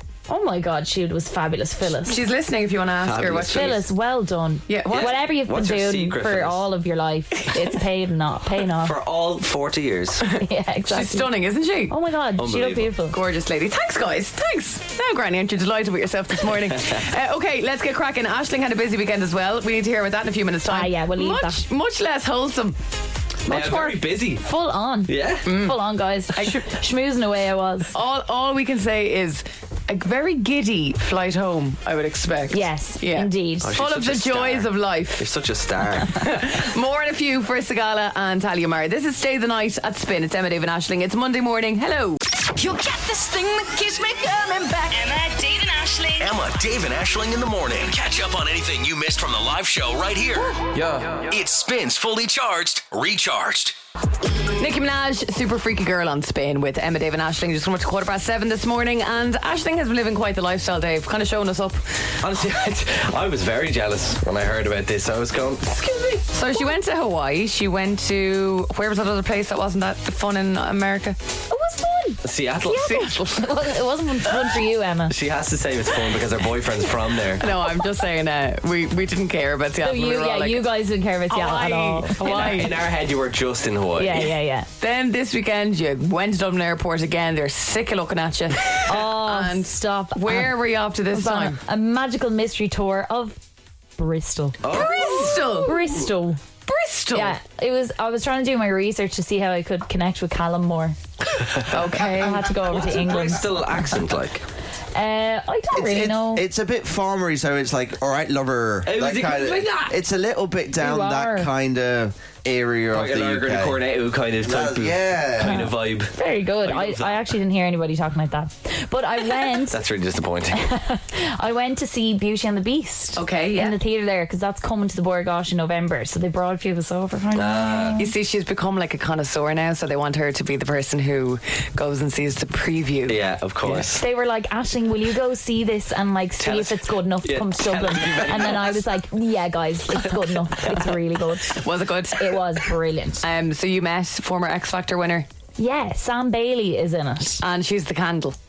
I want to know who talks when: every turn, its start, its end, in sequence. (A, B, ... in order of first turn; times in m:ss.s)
0:00.3-0:02.2 A
0:02.0-0:03.8 B
0:03.0-0:03.8 C
0:03.5-0:09.0 A
0:04.7-0:05.1 B
0:04.9-0:06.6 C
0:08.8-0:10.3 C
0:10.3-0:12.0 B
0:10.4-0:11.3 A
0:11.9-0:13.2 A
0:12.4-0:12.9 C
0:13.1-0:22.8 B
0:20.7-0:21.6 A
0:23.5-0:24.4 C
0:23.5-0:27.9 A
0:25.1-0:25.5 C
0:25.5-0:25.8 B
0:26.4-0:26.6 B
0:27.9-0:35.3 B
0:32.5-0:33.8 A
0:33.6-0:36.3 C
0:36.1-0:42.2 B
0:42.6-0:46.4 D
0:46.2-0:50.6 E
0:51.1-0:53.8 E
0:54.6-1:01.8 B
1:02.2-1:05.8 C
1:06.2-1:11.2 B
1:11.5-1:15.2 A
1:12.2-1:13.2 C
1:12.7-1:13.7 B
1:15.1-1:17.4 C
1:17.4-1:20.7 B
1:19.8-1:22.7 A
1:21.3-1:22.7 B
1:22.2-1:24.2 C
1:24.0-1:24.7 A
1:24.8-1:31.6 B
1:28.9-1:30.6 A
1:31.1-1:33.4 A
1:34.0-1:36.4 A
1:34.6-1:35.6 C
1:34.7-1:35.9 B
1:36.6-1:37.4 B
1:37.1-1:41.0 A
1:41.6-1:42.0 C
1:41.7-1:42.6 B
1:41.9-1:43.6 A
1:42.7-1:44.4 C
1:45.0-1:46.4 A
1:45.7-1:53.8 F
1:48.9-1:49.9 C
1:50.8-1:51.5 A
1:52.9-1:57.3 C
1:54.4-1:55.7 F
1:55.4-1:59.8 A
1:59.7-2:00.6 C
2:00.5-2:08.1 A
2:03.2-2:03.8 B
2:07.4-2:08.0 C
2:08.0-2:13.2 B
2:13.1-2:14.0 C
2:13.9-2:23.2 A
2:16.4-2:18.8 C
2:21.5-2:22.4 B
2:23.2-2:25.3 B
2:25.6-2:27.4 A
2:27.4-2:28.4 B